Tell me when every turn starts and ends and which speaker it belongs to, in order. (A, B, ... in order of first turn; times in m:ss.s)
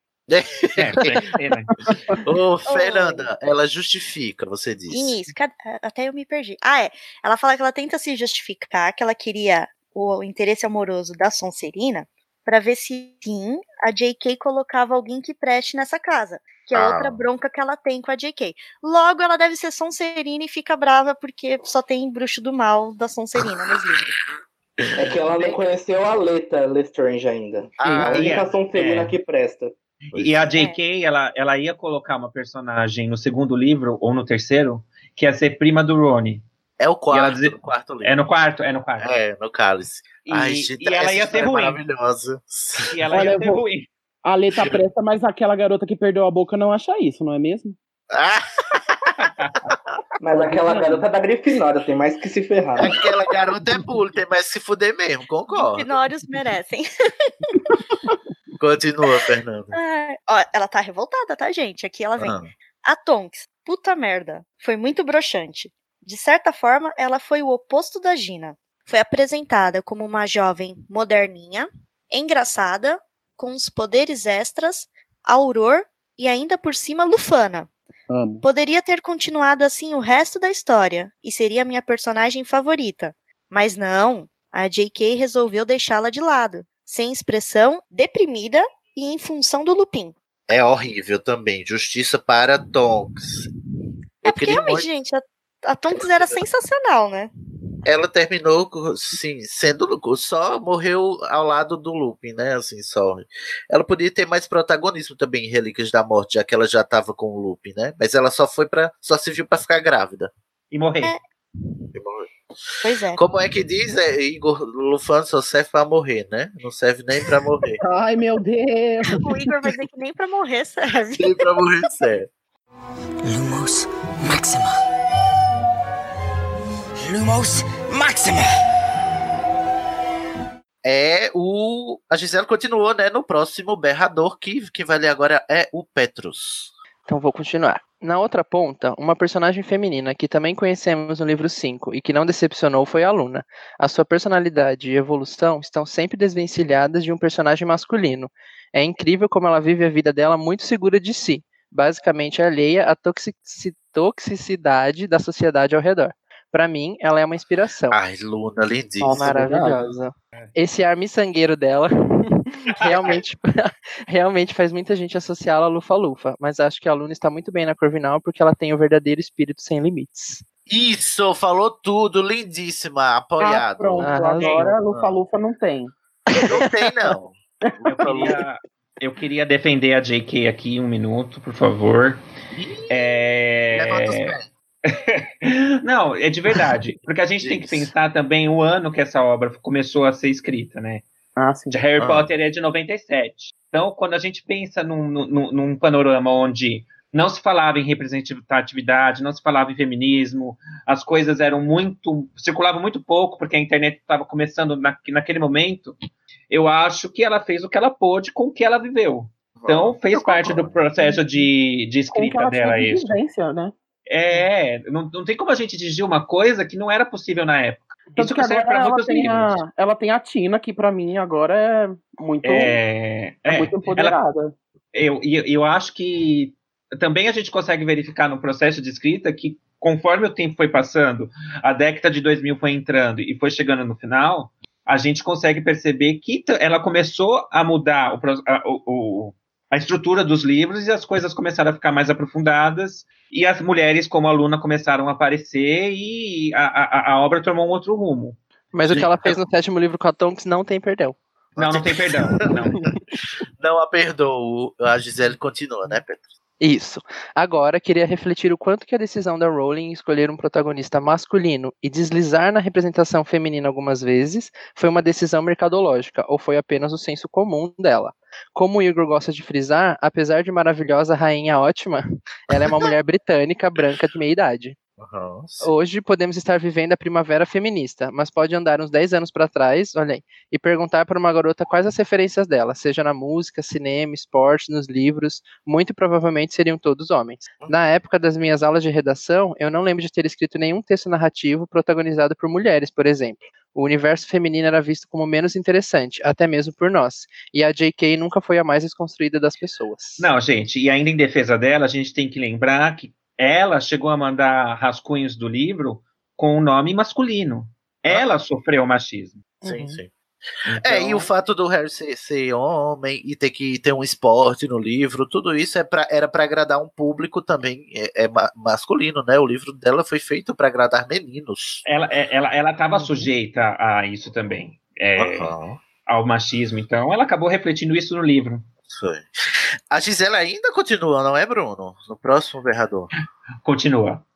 0:00.3-0:01.2 A
0:00.8-0:01.7 B
0:01.8-0:02.2 C
0:02.2-0:05.2 A
0:02.7-0:03.3 D
0:04.9-0:24.1 D
0:16.7-0:17.2 A
0:25.0-0:29.7 E
0:27.8-0:28.4 A
0:28.1-0:29.2 B
0:30.1-0:30.5 A
0:30.1-0:36.4 B
0:36.8-0:38.2 A
0:37.1-0:39.1 B
0:39.0-0:42.9 A
0:40.2-0:41.8 B
0:42.9-0:43.9 B
0:43.1-0:43.6 C
0:44.2-0:47.8 C
0:48.1-0:49.1 A
0:49.2-0:49.7 B
0:50.2-0:53.0 E
0:50.3-0:51.0 C
0:52.8-0:56.0 A
0:55.5-0:57.6 D
0:58.6-0:59.8 A
0:59.7-1:17.7 D
1:02.2-1:02.5 A
1:18.1-1:18.4 C
1:18.4-1:30.1 D
1:30.5-1:33.5 A
1:34.2-1:34.9 A
1:34.2-1:37.3 D
1:36.0-1:36.4 A
1:37.8-1:50.3 A
1:50.7-1:51.1 B
1:51.9-1:52.3 A
1:52.8-1:53.2 D
1:53.1-1:57.8 A
1:57.8-1:59.2 C
1:59.2-2:01.4 D
2:01.2-2:02.3 A
2:03.2-2:04.8 F
2:07.0-2:08.5 F
2:10.8-2:16.7 A
2:17.1-2:38.0 G
2:37.9-2:39.3 A
2:39.0-2:50.4 G
2:39.1-2:39.8 C
2:50.7-2:55.2 A
2:53.4-2:55.9 C
2:54.0-2:54.8 G
2:56.5-2:58.4 A
2:57.7-2:58.3 C
2:57.9-3:02.2 B
3:02.6-3:04.5 A
3:02.9-3:04.3 B
3:04.8-3:11.0 B
3:07.4-3:07.9 A
3:11.4-3:11.8 C
3:11.7-3:25.9 B
3:12.0-3:12.3 A
3:26.5-3:33.2 B
3:29.6-3:30.8 A
3:31.0-3:31.4 C
3:32.1-3:33.7 C
3:34.1-3:39.6 B
3:38.1-3:42.8 C
3:42.4-3:44.2 B
3:43.5-3:44.5 C
3:44.9-4:08.4 B
4:08.7-4:11.2 G
4:08.8-4:09.4 A
4:11.6-4:12.8 B
4:11.6-4:12.6 A
4:13.6-4:16.2 A
4:16.6-4:34.8 G
4:35.0-4:35.7 A
4:35.6-5:00.3 G
5:00.2-5:09.4 B
5:09.6-5:10.0 G
5:09.6-5:10.1 A
5:10.7-5:11.3 B
5:10.8-5:21.8 A
5:21.8-5:25.5 B
5:25.2-5:25.8 A
5:26.0-5:28.6 B
5:28.9-5:29.3 A
5:29.9-5:33.1 A
5:33.6-5:34.2 B